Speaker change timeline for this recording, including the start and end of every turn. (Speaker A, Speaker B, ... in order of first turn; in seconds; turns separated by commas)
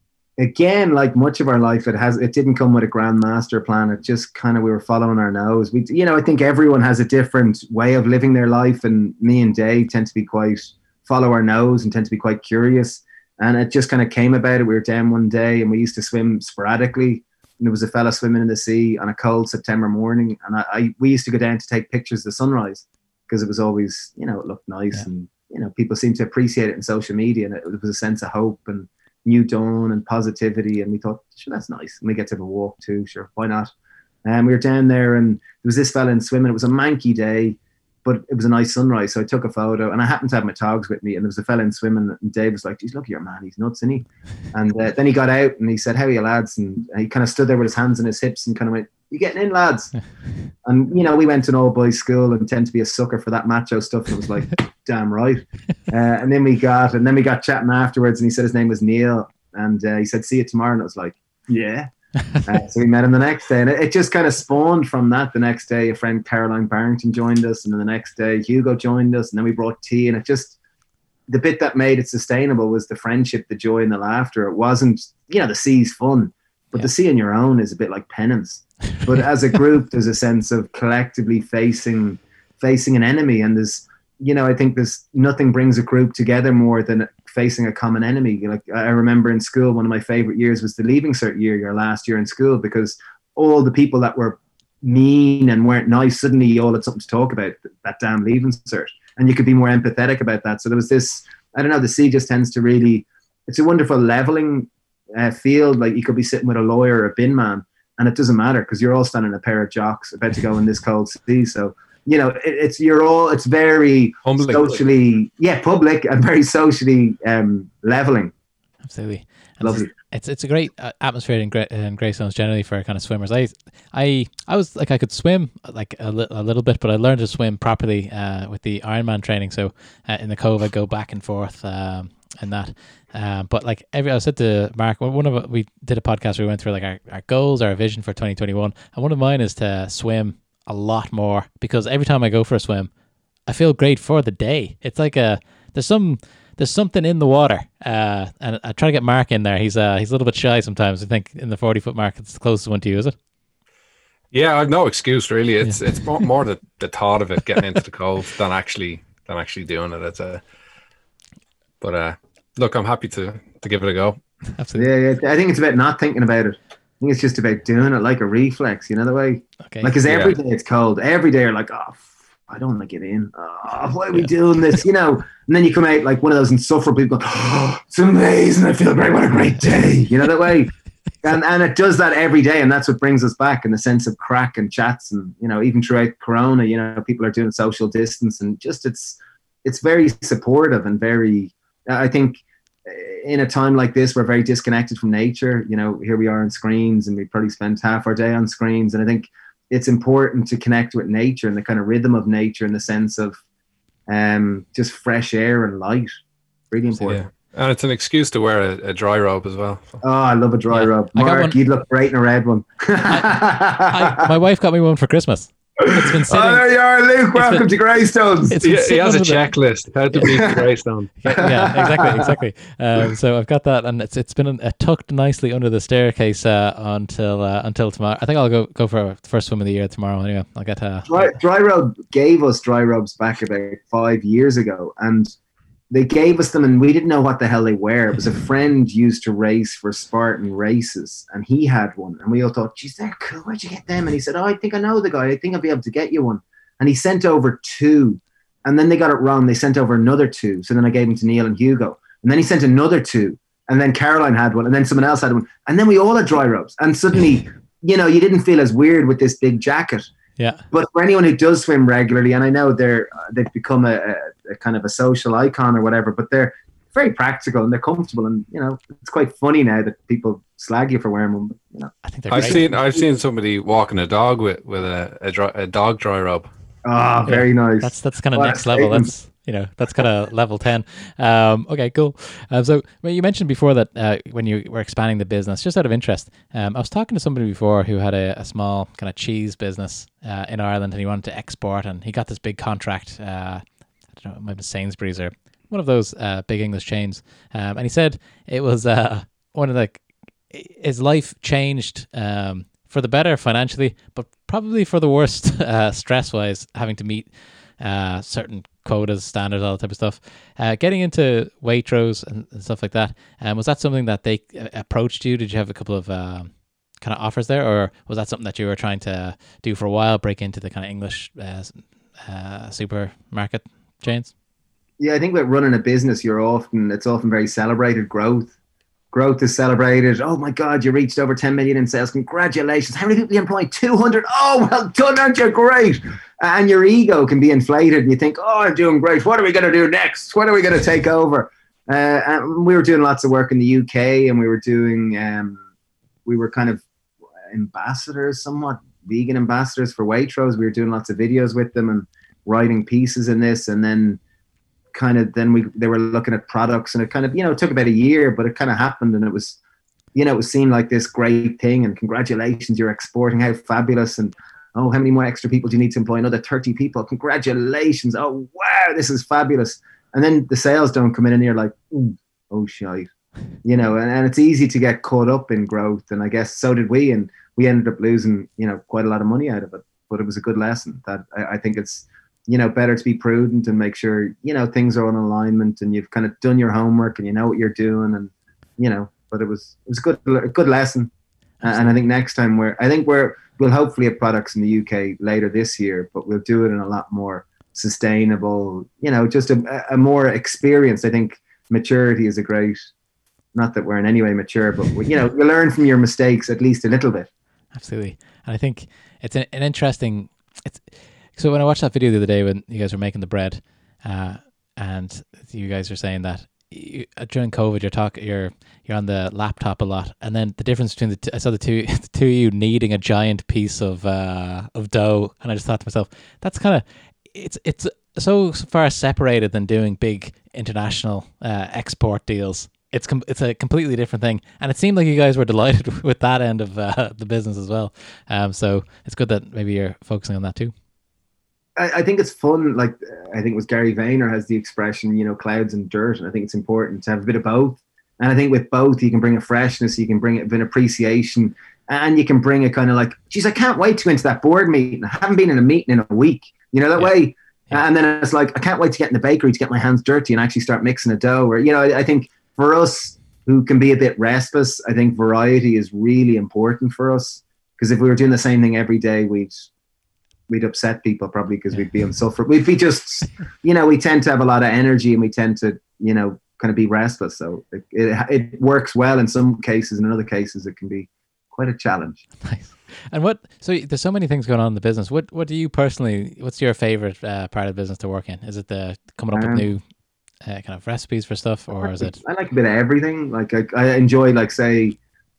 Speaker A: 0.4-33.7, Speaker A: 34.2-49.9, Speaker A: 50.6-61.9, Speaker A: 62.4-70.5, Speaker A: 71.3-118.3, Speaker B: 114.2-114.8, Speaker C: 118.8-142.9, Speaker A: 119.6-119.9, Speaker C: 143.5-153.1, Speaker B: 154.3-160.4, Speaker B: 161.8-164.2, Speaker C: 164.6-164.9, Speaker A: 164.8-180.7, Speaker C: 169.6-170.0, Speaker B: 170.0-170.4, Speaker A: 181.2-203.4, Speaker A: 204.1-206.2, Speaker A: 206.7-207.2, Speaker B: 207.0-210.0, Speaker A: 210.0-214.3, Speaker C: 210.7-211.6, Speaker C: 213.1-216.7, Speaker A: 215.8-218.6, Speaker C: 217.3-217.6, Speaker C: 218.5-219.5, Speaker B: 218.6-221.1, Speaker A: 220.2-220.6, Speaker C: 221.2-231.3, Speaker A: 221.3-222.3, Speaker A: 231.1-235.3, Speaker A: 235.9-260.1, Speaker C: 260.4-260.6, Speaker A: 260.7-273.0, Speaker C: 272.0-272.6, Speaker B: 272.3-276.5, Speaker A: 276.8-279.1, Speaker C: 277.2-324.3, Speaker A: 325.0-328.5, Speaker A: 329.1-345.6, Speaker A: 346.2-346.8, Speaker A: 347.5-354.2, Speaker A: 354.9-359.6, Speaker A: 360.1-373.1, Speaker A: 373.6-391.1, Speaker C: 391.6-392.0, Speaker A: 391.6-402.9, Speaker A: 403.5-407.3, Speaker C: 407.7-440.7, Speaker A: 441.8-469.6, Speaker A: 470.5-482.2, Speaker C: 482.4-489.8, Speaker A: 489.3-489.6, Speaker C: 490.4-492.2, Speaker A: 491.7-495.0